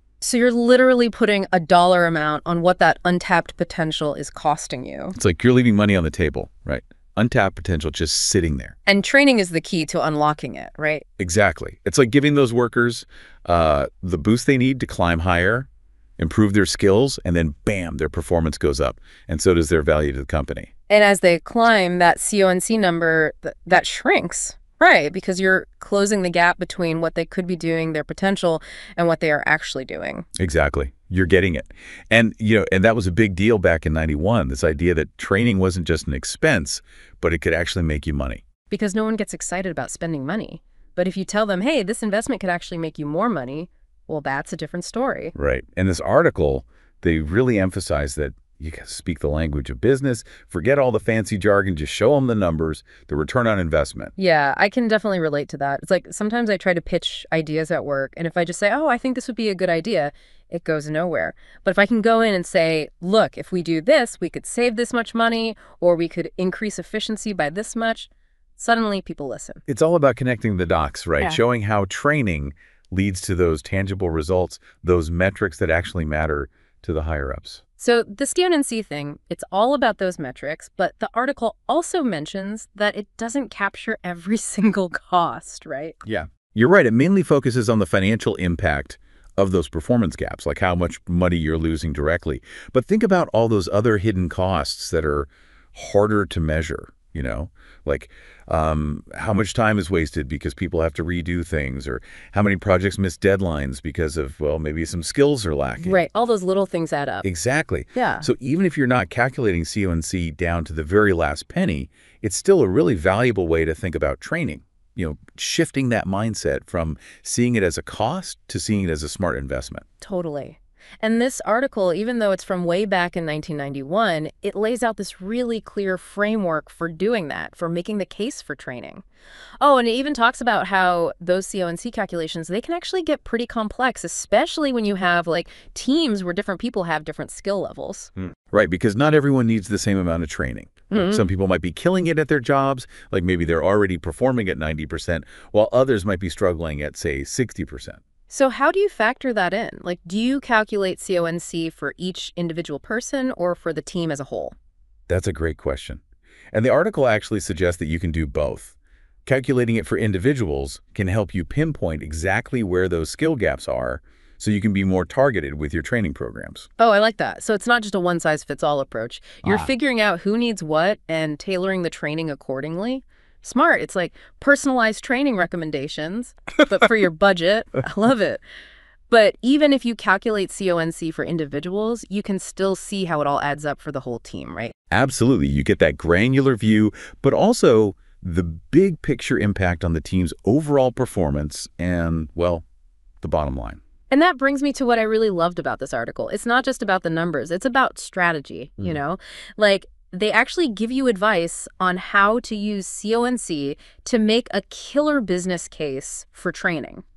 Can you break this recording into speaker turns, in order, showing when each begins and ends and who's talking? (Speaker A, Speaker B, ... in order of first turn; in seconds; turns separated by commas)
Speaker A: 0.2-5.2, Speaker B: 5.2-8.8, Speaker A: 8.9-11.0, Speaker B: 11.2-20.7, Speaker A: 20.9-30.3, Speaker B: 30.4-38.4, Speaker A: 38.7-45.3, Speaker B: 45.3-54.1, Speaker A: 54.2-69.6, Speaker B: 69.7-77.6, Speaker A: 77.8-86.0, Speaker B: 86.0-106.0, Speaker A: 105.8-107.2, Speaker B: 107.2-119.8, Speaker A: 108.0-108.3, Speaker A: 120.0-129.0, Speaker A: 129.6-138.1, Speaker B: 138.5-148.0, Speaker A: 140.9-141.2, Speaker A: 148.3-154.6, Speaker B: 155.1-156.0, Speaker B: 156.5-166.7, Speaker A: 166.8-178.4, Speaker B: 169.4-169.7, Speaker A: 179.1-184.7, Speaker B: 184.9-192.6, Speaker B: 193.2-193.8, Speaker A: 194.1-207.0